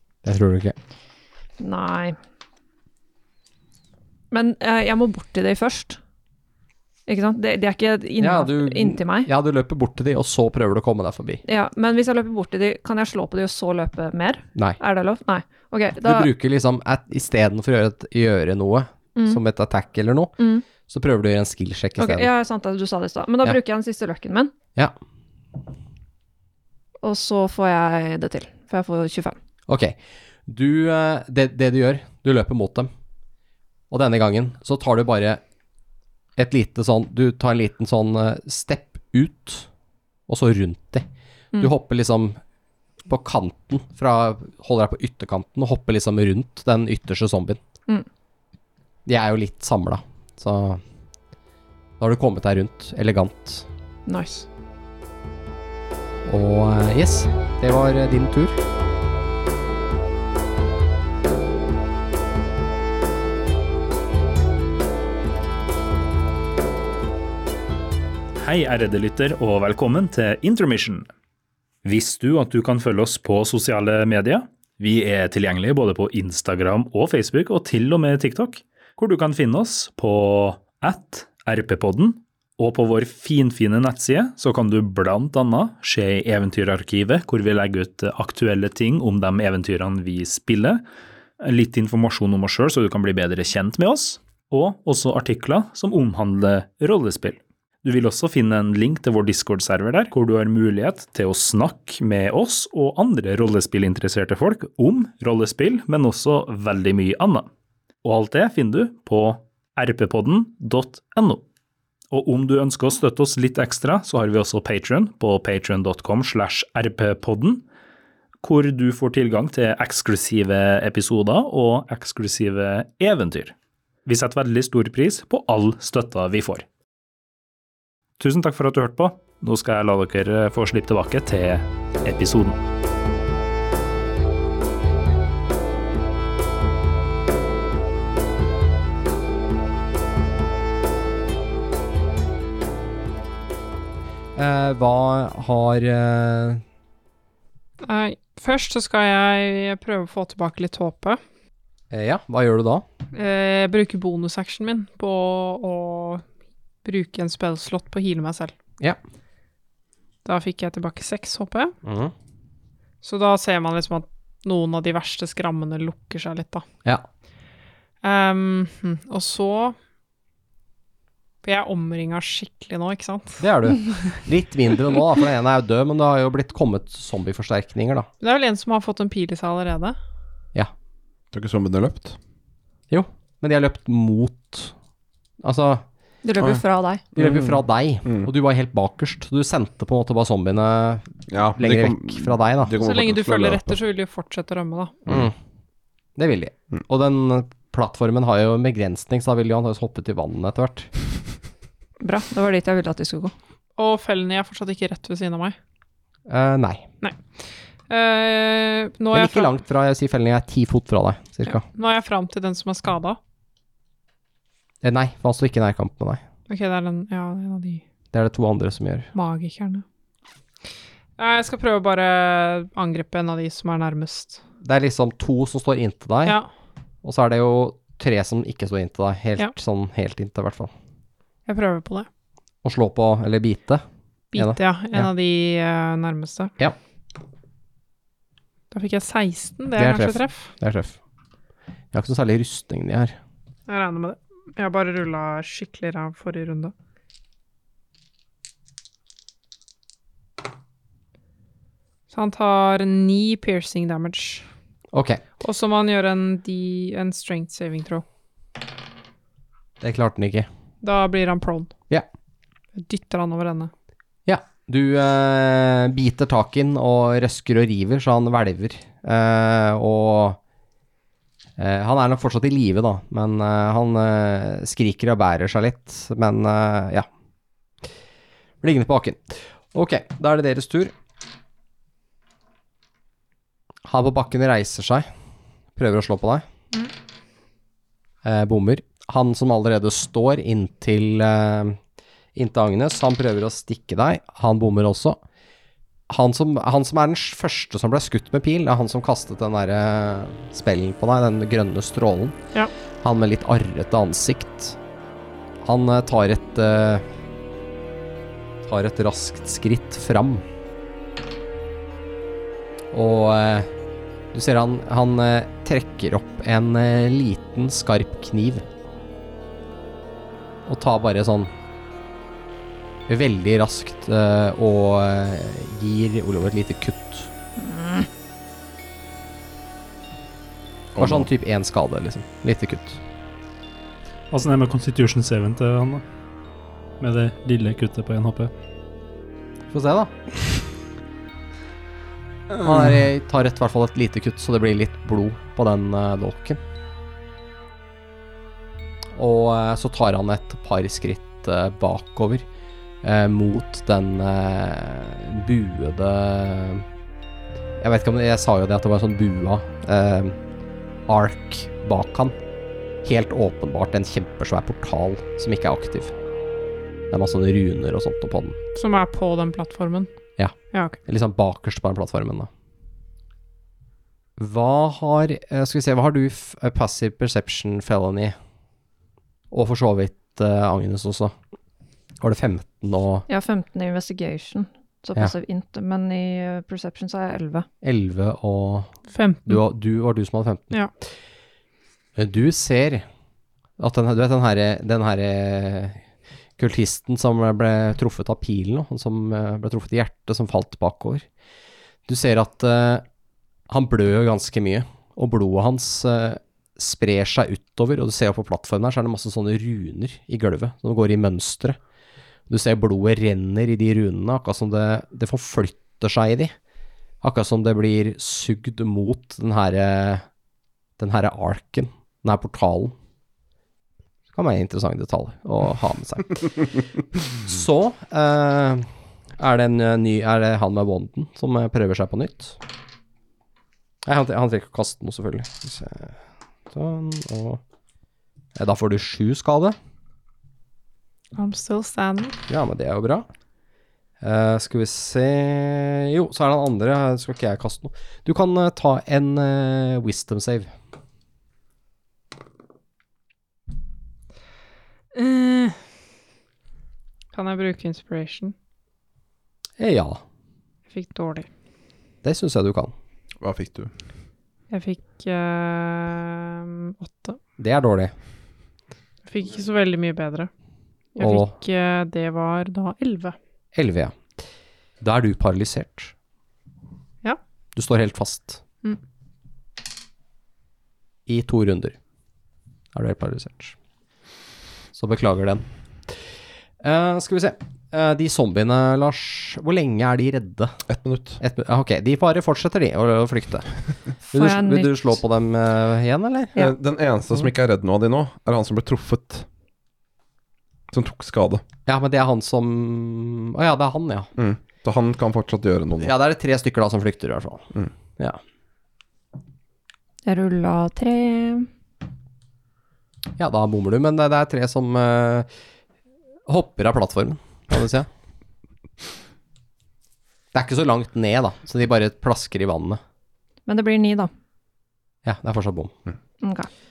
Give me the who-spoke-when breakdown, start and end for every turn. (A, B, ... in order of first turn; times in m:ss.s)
0:00.2-0:00.8 A
0:01.6-0:02.2 B
0:04.3-0:06.0 B
0:07.1-0:09.3 B
0:08.2-0:11.4 A
0:11.4-0:16.3 B
0:16.0-0:20.3 A
0:19.2-0:19.4 B
0:20.4-0:20.6 B
0:20.9-0:22.3 A
0:22.0-0:24.5 B
0:27.0-0:29.4 B
0:29.7-0:32.9 A
0:33.9-0:35.4 A
0:36.4-0:39.7 A
0:40.3-0:41.1 A
0:41.6-0:42.4 A
0:43.0-0:47.6 A
0:49.0-0:50.8 A
0:52.0-0:53.7 A
0:54.1-0:54.5 B
0:56.2-0:58.6 A
1:08.4-1:11.1 C
1:11.8-1:30.8 C
1:31.4-1:47.5 C
1:48.0-1:51.4 C
1:52.1-1:57.6 C
1:58.4-2:06.6 C
2:08.2-2:12.6 C
2:24.4-2:26.6 A
2:27.8-2:31.2 D
2:31.9-2:32.8 A
2:33.1-2:36.2 D
2:36.8-2:38.5 D
2:40.2-2:41.7 D
2:41.8-2:42.1 A
2:43.0-2:46.6 D
2:48.0-2:49.8 D
2:51.4-2:54.0 D
2:53.4-2:58.1 A
2:58.2-3:00.0 D
3:01.3-3:02.2 E
3:02.9-3:04.7 A
3:05.4-3:05.8 A
3:06.2-3:07.0 B
3:07.1-3:08.3 E
3:07.2-3:12.8 A
3:11.3-3:13.8 E
3:12.8-3:15.0 D
3:15.1-3:15.3 A
3:16.2-3:20.9 A
3:22.0-3:23.3 B
3:23.8-3:25.6 D
3:26.3-3:26.9 A
3:27.0-3:29.6 D
3:29.1-3:31.6 A
3:31.6-3:33.2 D
3:34.8-3:36.2 A
3:36.5-3:37.8 D
3:38.1-3:39.1 A
3:39.1-3:39.8 D
3:41.2-3:44.4 D
3:44.6-3:46.4 A
3:47.0-3:50.7 A
3:51.4-3:52.1 D
3:52.6-3:53.8 A
3:54.3-3:56.5 D
3:54.4-3:55.1 A
3:58.7-4:00.5 D
3:59.8-4:01.0 A
4:01.9-4:03.2 A
4:03.7-4:06.7 D
4:12.1-4:14.5 D
4:14.9-4:15.2 A
4:15.4-4:18.0 D
4:19.8-4:20.5 A
4:20.8-4:21.7 D
4:22.7-4:23.7 D
4:24.2-4:30.4 A
4:31.6-4:37.1 A
4:38.6-4:40.9 A
4:43.8-4:45.1 A
4:45.8-4:46.4 A
4:48.2-4:51.8 A
4:52.3-4:55.2 A
4:56.1-5:02.4 A
5:03.0-5:04.8 A
5:05.6-5:07.0 A
5:08.6-5:10.4 A
5:12.9-5:13.7 A
5:14.3-5:18.7 A
5:20.6-5:21.5 A
5:23.1-5:27.3 A
5:27.6-5:28.1 B
5:30.9-5:31.3 E
5:31.0-5:33.0 A
5:34.3-5:36.0 C
5:37.0-5:38.5 C
5:39.7-5:40.1 A
5:42.6-5:46.6 A
5:49.1-5:52.4 A
5:53.0-5:56.8 A
5:57.8-6:00.4 A
6:01.1-6:02.4 A
6:03.0-6:06.1 A
6:07.1-6:08.6 A
6:08.8-6:10.1 D
6:10.4-6:12.5 A
6:10.7-6:11.0 D
6:14.4-6:18.3 A
6:19.5-6:21.3 A
6:22.2-6:23.2 A
6:23.3-6:27.7 B
6:27.8-6:28.9 A
6:29.1-6:29.6 D
6:29.5-6:30.8 A
6:32.2-6:33.0 A
6:33.8-6:36.0 A
6:36.6-6:41.2 A
6:42.1-6:43.0 A
6:43.7-6:51.8 A
6:52.5-6:56.5 A
6:57.2-7:00.2 A
7:01.0-7:02.9 A
7:04.3-7:06.8 A
7:07.4-7:12.6 A
7:14.0-7:16.2 A
7:16.7-7:17.6 A
7:18.6-7:19.8 A
7:21.3-7:22.4 D
7:22.5-7:23.2 A
7:24.2-7:30.7 A
7:35.1-7:35.8 D
7:37.3-7:38.5 D
7:39.8-7:40.2 A
7:40.9-7:41.5 D
7:42.2-7:42.9 A
7:43.4-7:43.9 E
7:44.7-7:47.4 D
7:47.6-7:48.1 A
7:49.2-7:50.5 D
7:51.2-7:53.4 D
7:51.2-7:51.5 A
7:53.7-7:54.1 A
7:55.0-7:56.1 A
7:57.8-7:58.6 A
8:01.2-8:02.0 A
8:02.9-8:03.7 A
8:04.9-8:06.2 A
8:06.8-8:10.8 A
8:10.9-8:11.4 E
8:11.4-8:13.7 A
8:14.3-8:16.6 A
8:14.3-8:15.0 B
8:16.6-8:19.4 E
8:20.9-8:21.6 E
8:21.8-8:24.3 A
8:24.4-8:26.1 E
8:26.0-8:28.4 A
8:30.2-8:31.7 B
8:33.4-8:35.5 A
8:36.5-8:38.1 A
8:40.5-8:43.0 A
8:43.7-8:44.3 B
8:45.2-8:45.9 A
8:46.4-8:46.7 B